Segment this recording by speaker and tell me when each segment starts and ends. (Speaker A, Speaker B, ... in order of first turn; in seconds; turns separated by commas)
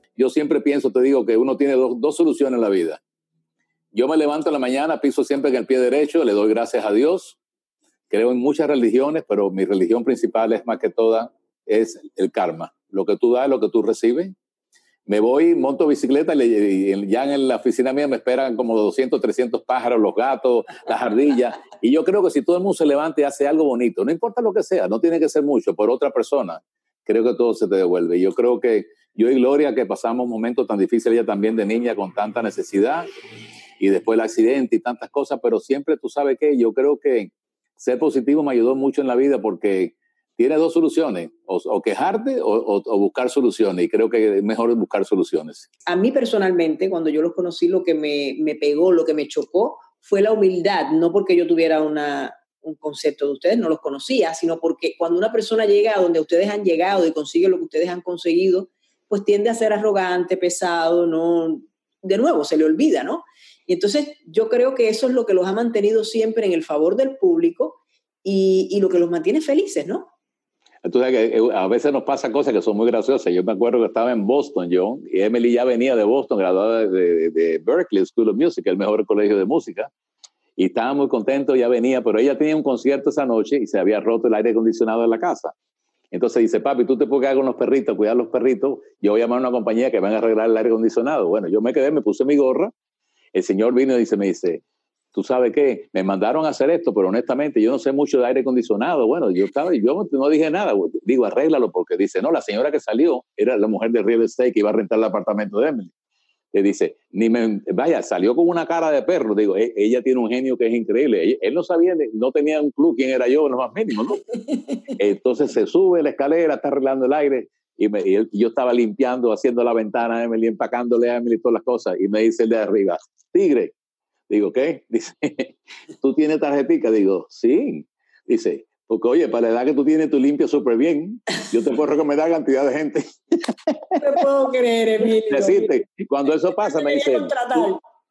Speaker A: 0.2-3.0, Speaker A: 3.9-7.4, Speaker A: 8.1-14.3, Speaker A: 15.1-33.1, Speaker A: 33.8-45.7, Speaker B: 45.9-70.1, Speaker A: 70.8-79.9, Speaker A: 80.6-85.5, Speaker A: 86.1-92.7, Speaker A: 93.3-94.6, Speaker A: 95.1-105.9, Speaker A: 106.5-114.2, Speaker A: 115.0-123.7, Speaker A: 124.3-133.1, Speaker B: 134.0-135.7, Speaker A: 135.2-137.7, Speaker B: 136.6-137.8